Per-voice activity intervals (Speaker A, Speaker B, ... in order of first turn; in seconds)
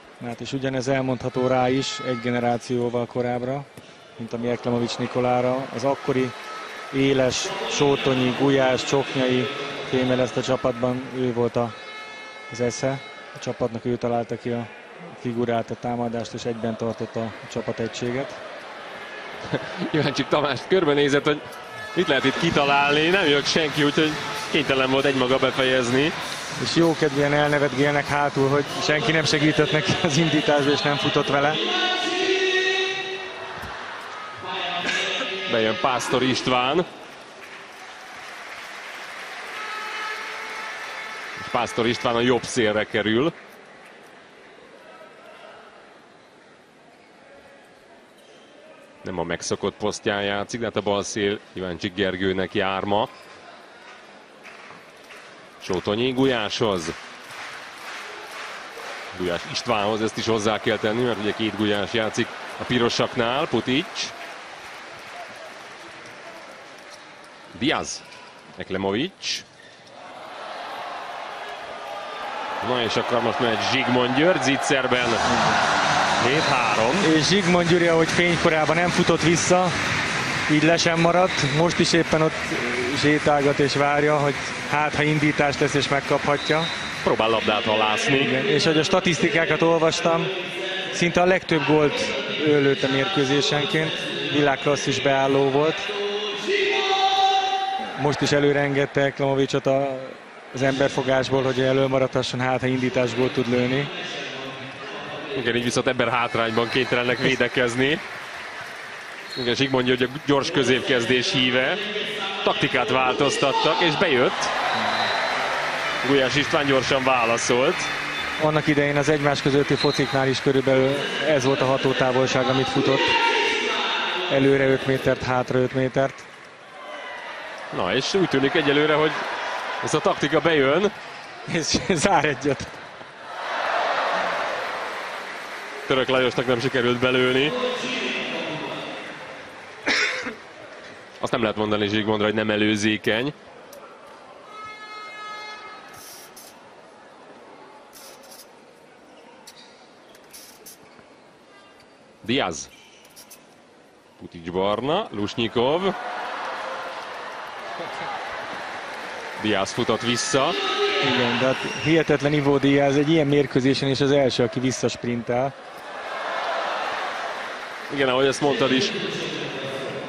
Speaker A: 0.2-6.3, 6.9-11.8, 12.5-18.4, 26.6-31.6, 75.2-75.6, 77.0-79.8, 80.5-86.7, 88.2-90.3, 90.9-95.9, 98.0-103.9, 118.4-123.1, 124.3-126.2, 131.5-132.8, 161.0-165.5
Speaker B: 19.5-21.4, 21.9-26.1, 35.5-36.9, 41.4-43.3, 49.0-53.1, 55.6-57.0, 59.1-64.1, 67.5-68.0, 68.6-69.4, 72.6-75.2, 76.2-77.1, 87.0-88.3, 105.3-108.0, 109.3-111.8, 112.4-114.5, 116.0-117.9, 127.7-129.2, 129.8-130.9, 135.8-137.6, 141.2-143.3, 152.2-152.7, 154.2-155.9, 159.4-160.6, 167.9-169.0